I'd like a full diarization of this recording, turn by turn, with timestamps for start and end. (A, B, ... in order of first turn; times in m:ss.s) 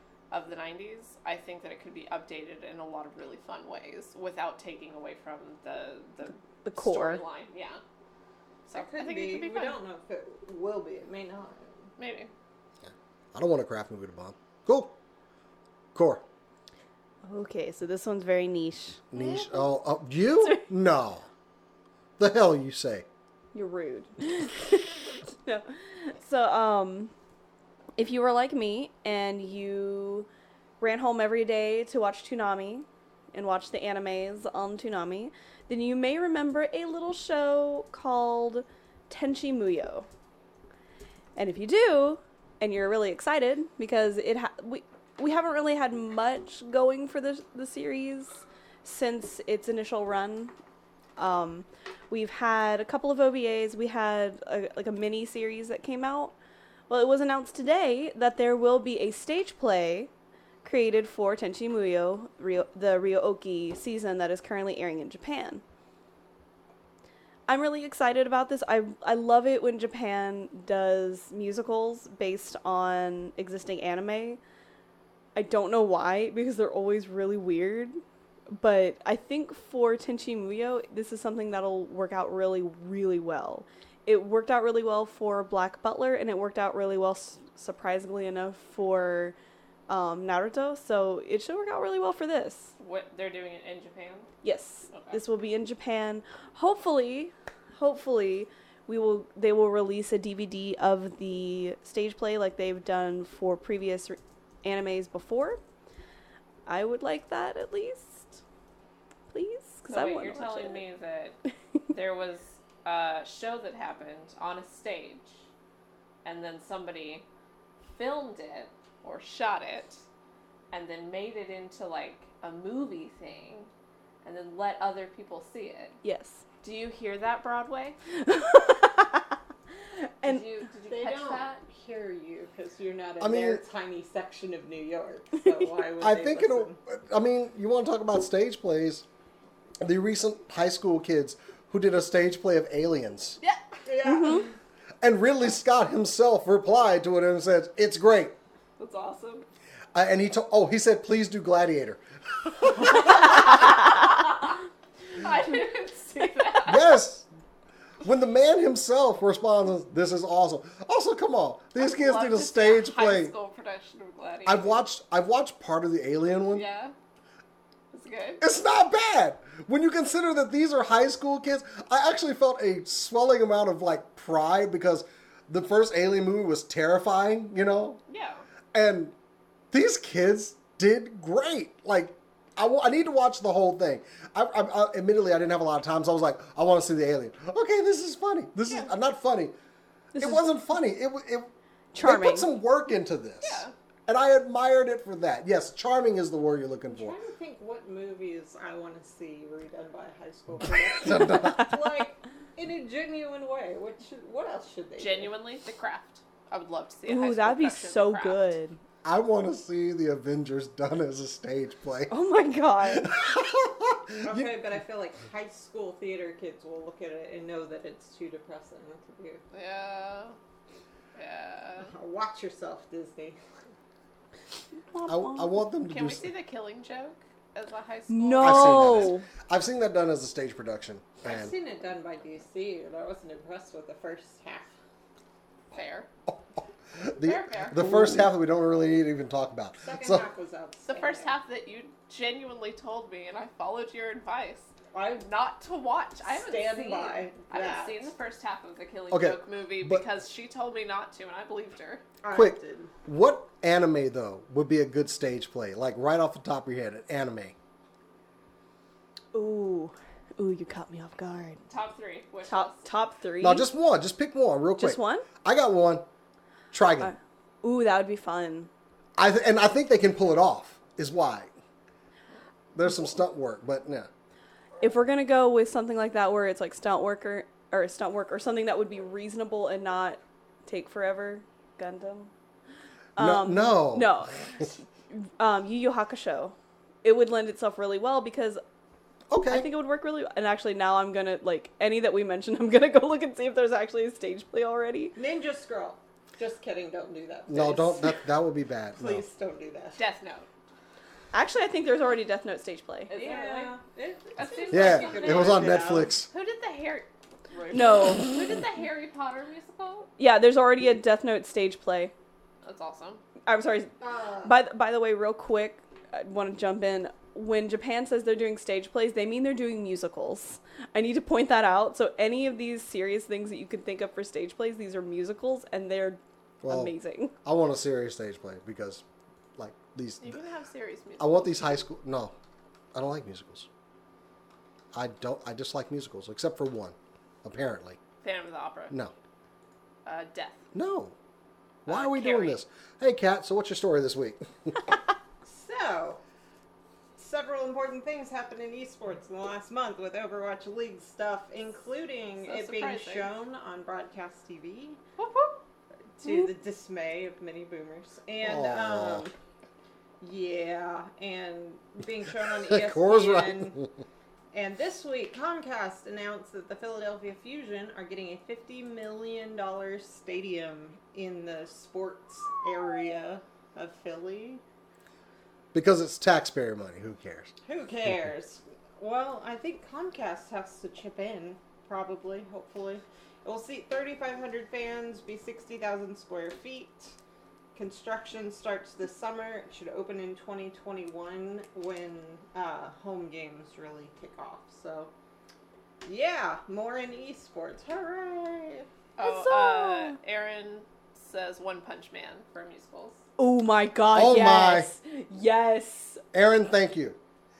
0:00.3-0:07.8 A
0:06.6-0:07.2 B
0:08.7-0:09.8 A
0:08.7-0:11.9 C
0:12.0-0:12.3 A
0:12.8-0:14.9 D
0:15.9-0:16.2 D
0:17.2-0:19.7 B
0:19.1-0:21.2 D
0:22.2-0:23.0 D
0:23.5-0:27.1 B
0:28.0-0:30.3 B
0:30.8-0:40.1 B
0:41.3-0:50.5 B
0:51.2-0:56.3 B
0:56.9-1:00.1 B
1:00.6-1:05.6 B
1:07.5-1:14.4 B
1:15.3-1:18.0 B
1:18.5-1:29.4 B
1:29.9-1:32.7 B
1:32.8-1:34.3 A
1:34.4-1:45.6 B
1:34.9-1:35.2 A
1:46.6-1:48.4 B
1:49.3-1:50.8 B
1:49.9-1:51.4 A
1:51.9-1:55.4 A
1:56.2-1:57.2 A
1:57.9-2:00.0 A
2:00.7-2:03.7 A
2:04.2-2:06.0 A
2:06.0-2:06.4 B
2:06.6-2:08.0 A
2:08.2-2:09.3 B
2:10.0-2:10.4 B
2:10.2-2:11.6 A
2:10.9-2:16.8 C
2:13.2-2:13.6 D
2:16.0-2:19.0 D
2:19.8-2:23.4 D
2:23.8-2:24.5 C
2:24.0-2:24.4 B
2:25.0-2:28.3 D
2:28.8-2:29.4 A
2:29.9-2:33.6 D
2:35.1-2:37.0 A
2:36.6-2:37.3 D
2:38.0-2:43.3 D
2:41.8-2:44.8 A
2:44.4-2:46.6 D
2:46.5-2:46.9 A
2:47.9-2:48.4 A
2:48.4-2:58.0 D
2:58.1-2:58.4 A
2:58.7-2:59.1 D
2:59.7-3:09.5 D
3:10.1-3:10.4 B
3:10.2-3:17.1 D
3:11.9-3:12.5 B
3:13.4-3:13.7 A
3:16.9-3:25.3 C
3:20.6-3:21.8 D
3:25.0-3:28.4 A
3:27.1-3:28.8 B
3:29.0-3:32.2 D
3:32.1-3:33.2 B
3:32.8-3:34.5 D
3:34.2-3:39.4 C
3:39.5-3:40.4 A
3:41.1-3:41.9 A
3:41.9-3:43.4 C
3:44.9-3:45.5 B
3:45.1-3:46.3 D
3:45.9-3:49.1 A
3:48.1-3:49.2 B
3:48.4-3:51.5 D
3:51.2-3:54.7 C
3:55.7-3:56.1 A
3:56.9-4:00.2 D
3:57.2-3:57.9 A
3:59.8-4:01.3 C
4:00.9-4:12.0 A
4:06.2-4:08.1 C
4:09.1-4:10.0 D
4:12.2-4:12.9 C
4:12.3-4:17.5 D
4:19.3-4:21.6 B
4:21.7-4:22.9 A
4:22.5-4:23.7 B
4:23.4-4:26.0 D
4:24.8-4:25.2 B
4:26.7-4:27.1 D
4:27.0-4:28.7 B
4:29.2-4:31.5 D
4:32.7-4:34.1 D
4:34.8-4:42.3 B
4:43.2-4:48.6 B
4:43.2-4:44.2 D
4:49.3-4:49.7 D
4:49.5-4:55.2 B
4:55.1-4:58.3 C
4:57.5-4:59.2 D
4:59.0-5:00.0 C
5:00.0-5:00.5 A
5:01.3-5:03.1 B
5:03.1-5:03.8 A
5:03.1-5:06.1 C
5:04.4-5:10.1 A
5:04.7-5:06.3 D
5:07.7-5:08.4 B
5:10.2-5:12.1 B
5:12.6-5:13.2 A
5:13.4-5:27.3 B
5:14.0-5:14.6 C
5:26.6-5:29.0 D
5:29.6-5:30.4 D
5:30.2-5:31.6 A
5:31.2-5:32.3 D
5:32.9-5:33.7 D
5:34.9-5:38.0 D
5:38.2-5:39.0 A
5:40.0-5:40.6 A
5:40.7-5:41.1 D
5:41.8-5:44.9 D
5:41.9-5:42.6 A
5:45.4-5:46.2 C
5:47.2-5:55.0 C
5:52.4-5:53.3 A
5:55.2-5:55.6 A
5:56.2-5:59.3 C
5:58.4-5:59.3 D
6:00.2-6:03.8 C
6:02.7-6:03.9 D
6:04.5-6:14.6 C
6:15.7-6:17.5 D
6:17.6-6:27.2 C
6:27.7-6:35.1 C
6:36.0-6:38.9 C
6:39.2-6:43.2 A
6:39.2-6:40.2 B
6:43.4-6:46.2 B
6:44.1-6:44.9 D
6:46.3-6:47.2 D